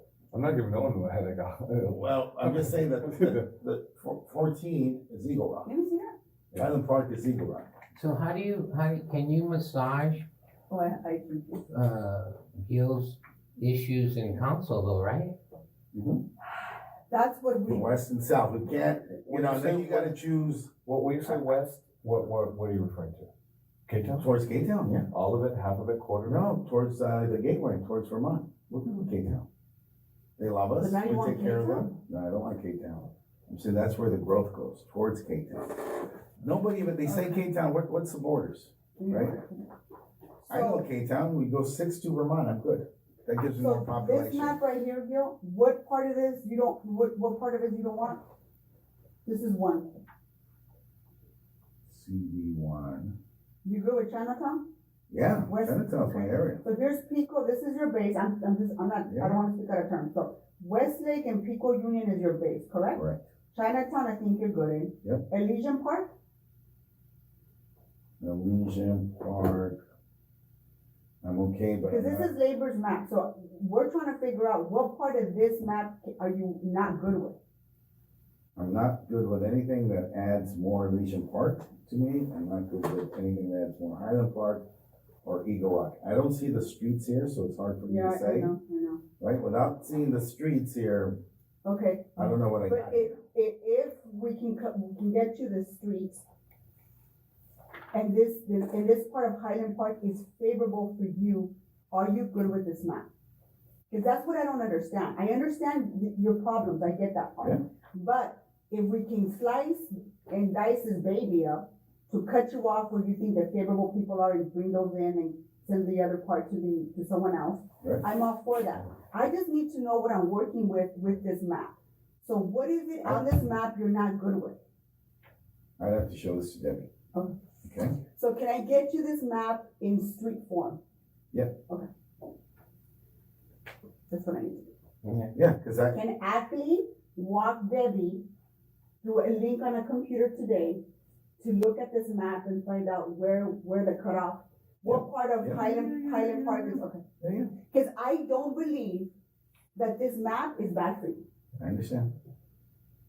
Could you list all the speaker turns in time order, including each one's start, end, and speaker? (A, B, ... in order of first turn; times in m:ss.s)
0:00.3-0:03.4 A
0:01.9-0:05.7 B
0:05.6-0:06.1 C
0:06.5-0:07.7 B
0:07.9-0:10.2 D
0:10.7-0:11.6 C
0:11.7-0:15.4 D
0:15.9-0:16.2 B
0:17.1-0:17.9 C
0:17.7-0:20.7 B
0:19.3-0:20.2 A
0:20.8-0:23.3 A
0:23.9-0:24.2 A
0:24.2-0:25.1 B
0:25.1-0:26.5 A
0:26.2-0:29.5 B
0:30.4-0:39.4 B
0:30.8-0:31.9 C
0:37.0-0:37.4 C
0:39.0-0:39.6 C
0:40.4-0:40.8 C
0:40.5-0:44.6 B
0:43.5-0:48.2 C
0:49.2-0:49.9 C
0:51.9-0:53.2 B
0:53.6-0:54.7 C
0:55.1-0:56.6 B
0:55.5-1:06.1 C
0:59.1-0:59.4 B
1:02.9-1:03.2 B
1:08.2-1:09.8 B
1:11.2-1:12.3 B
1:11.9-1:17.4 C
1:18.6-1:24.6 B
1:25.2-1:28.5 B
1:27.8-1:29.0 C
1:29.2-1:31.2 B
1:31.6-1:36.2 C
1:32.2-1:33.2 B
1:37.9-1:43.1 C
1:43.9-2:04.6 C
2:05.8-2:06.9 B
2:07.6-2:08.0 B
2:08.2-2:10.8 C
2:14.1-2:14.7 C
2:15.3-2:16.0 B
2:15.9-2:18.2 C
2:19.0-2:20.8 C
2:21.4-2:27.0 C
2:24.8-2:27.5 B
2:27.7-2:29.1 C
2:29.7-2:31.2 C
2:31.6-2:32.1 B